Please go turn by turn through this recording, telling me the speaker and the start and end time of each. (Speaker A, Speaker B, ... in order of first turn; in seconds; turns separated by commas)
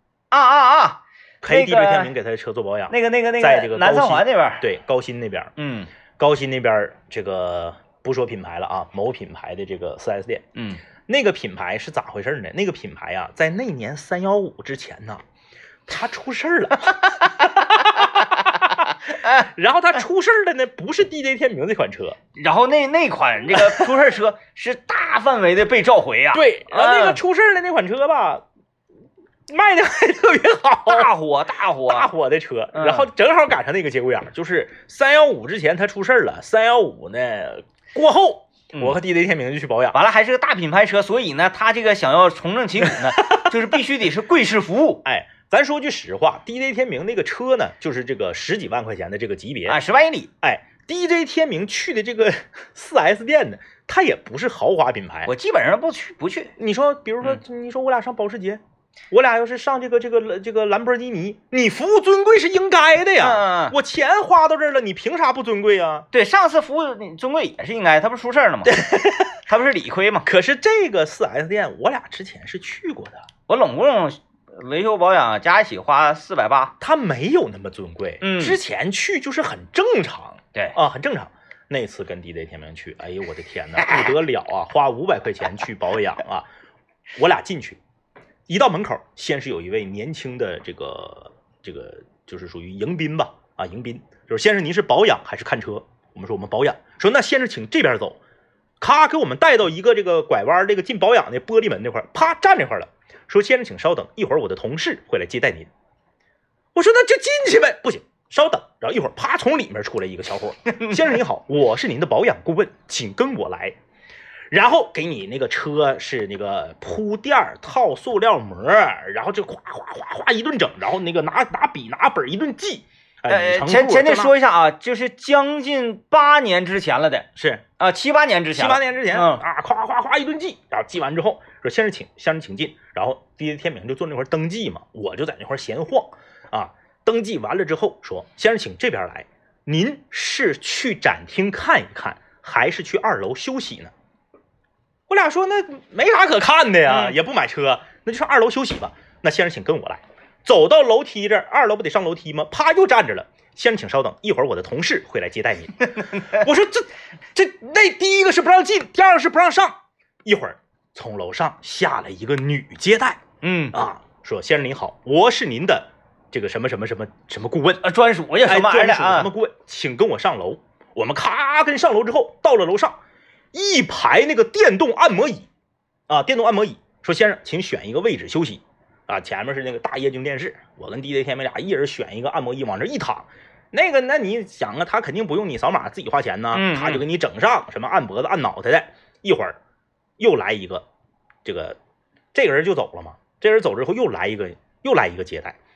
Speaker A: 0.3-2.1, Speaker B: 1.4-5.5, Speaker A: 2.9-4.7, Speaker A: 5.6-5.9, Speaker B: 6.2-10.4, Speaker A: 10.5-10.8, Speaker B: 11.1-15.2, Speaker B: 15.9-22.2, Speaker A: 17.8-19.4, Speaker A: 22.3-27.2, Speaker B: 23.5-24.0, Speaker B: 26.3-28.4, Speaker B: 29.5-31.1, Speaker A: 30.9-32.1, Speaker B: 31.8-40.0, Speaker A: 32.7-33.1, Speaker A: 39.9-45.0, Speaker B: 42.9-43.5, Speaker B: 45.0-49.8, Speaker A: 49.6-50.3, Speaker B: 50.4-55.3, Speaker A: 55.2-56.5, Speaker B: 56.6-66.1, Speaker A: 63.2-63.8, Speaker A: 66.1-70.3, Speaker B: 68.7-69.4, Speaker B: 70.2-73.2, Speaker A: 73.5-76.7, Speaker B: 76.8-86.5, Speaker A: 78.2-78.6, Speaker B: 87.2-87.8, Speaker B: 88.5-98.2, Speaker B: 98.8-105.7, Speaker B: 106.7-113.8, Speaker A: 110.7-111.0, Speaker B: 114.5-124.3, Speaker A: 123.3-129.4, Speaker B: 127.3-127.6, Speaker B: 128.5-143.9, Speaker B: 145.1-163.2, Speaker A: 146.9-147.2, Speaker A: 156.0-156.4, Speaker A: 163.4-163.8, Speaker B: 163.7-167.8, Speaker A: 167.8-169.3, Speaker B: 168.4-173.0, Speaker B: 173.5-175.5, Speaker B: 176.1-189.6, Speaker A: 186.5-187.0, Speaker B: 190.2-190.8, Speaker B: 191.4-191.8, Speaker B: 192.3-195.6